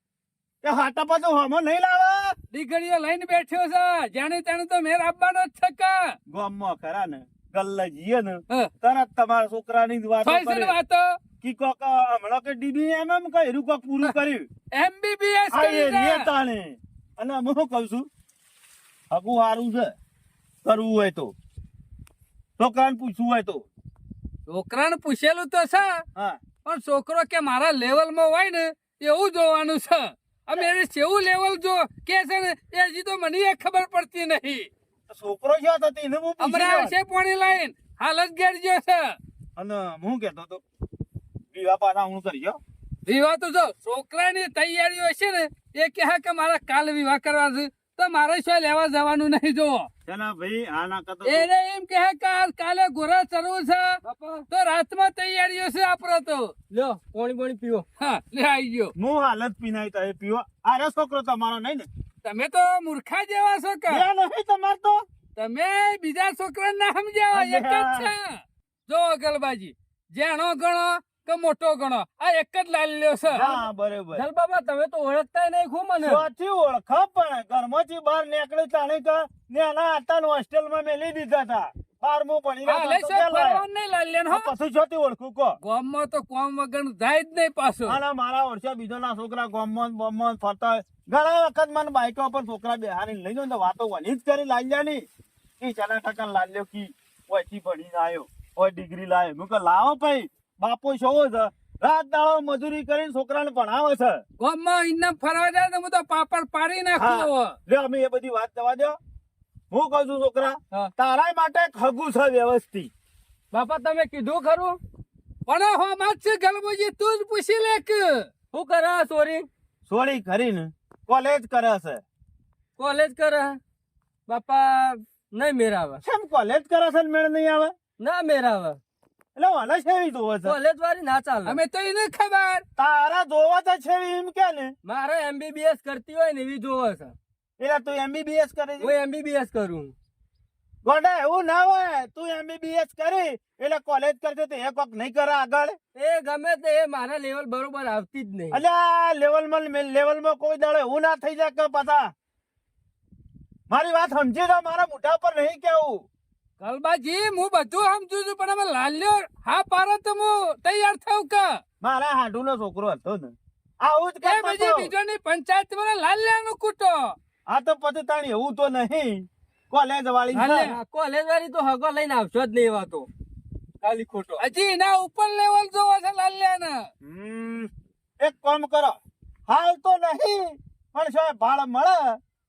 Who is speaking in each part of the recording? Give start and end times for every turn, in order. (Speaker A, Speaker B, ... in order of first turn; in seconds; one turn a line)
Speaker A: 0.6-2.3
Speaker B: 2.5-6.1
Speaker A: 6.3-10.8
Speaker B: 10.2-11.2
Speaker A: 11.4-14.5
Speaker B: 14.7-16.3
Speaker A: 15.5-18.1
Speaker A: 19.1-19.9
Speaker A: 20.6-21.3
Speaker A: 22.6-23.7
Speaker B: 24.5-26.0
Speaker B: 26.6-34.7
Speaker A: 35.1-36.9
Speaker B: 36.4-39.1
Speaker A: 39.6-40.6
Speaker A: 41.5-42.6
Speaker B: 43.0-49.9
Speaker A: 50.1-51.5
Speaker B: 51.2-56.5
Speaker C: 54.0-54.5
Speaker C: 56.7-57.9
Speaker B: 58.0-58.9
Speaker A: 59.0-61.9
Speaker B: 62.2-64.0
Speaker A: 63.9-65.0
Speaker B: 65.4-73.6
Speaker A: 67.3-68.1
Speaker A: 73.3-74.2
Speaker C: 74.1-76.2
Speaker A: 76.0-83.6
Speaker B: 82.6-84.5
Speaker A: 84.3-85.6
Speaker B: 85.6-88.0
Speaker A: 87.8-95.0
Speaker A: 95.6-104.2
Speaker B: 104.4-107.5
Speaker A: 107.0-109.0
Speaker A: 109.7-112.9
Speaker C: 113.5-114.8
Speaker B: 115.5-118.3
Speaker C: 118.5-119.5
Speaker A: 119.9-122.0
Speaker C: 122.8-123.6
Speaker C: 124.3-126.0
Speaker A: 126.0-127.7
Speaker C: 128.0-128.8
Speaker A: 129.3-130.6
Speaker C: 130.4-131.6
Speaker B: 131.5-132.6
Speaker A: 132.8-134.7
Speaker C: 134.8-137.1
Speaker A: 137.6-138.9
Speaker C: 138.8-139.9
Speaker A: 140.8-145.8
Speaker C: 145.9-148.6
Speaker A: 148.5-152.1
Speaker A: 153.7-156.0
Speaker B: 156.6-161.6
Speaker A: 161.8-164.9
Speaker B: 164.2-167.1
Speaker A: 167.5-170.7
Speaker B: 170.3-170.7
Speaker C: 170.5-173.1
Speaker C: 173.8-174.4
Speaker B: 174.4-176.8
Speaker A: 177.0-177.7
Speaker A: 178.2-182.2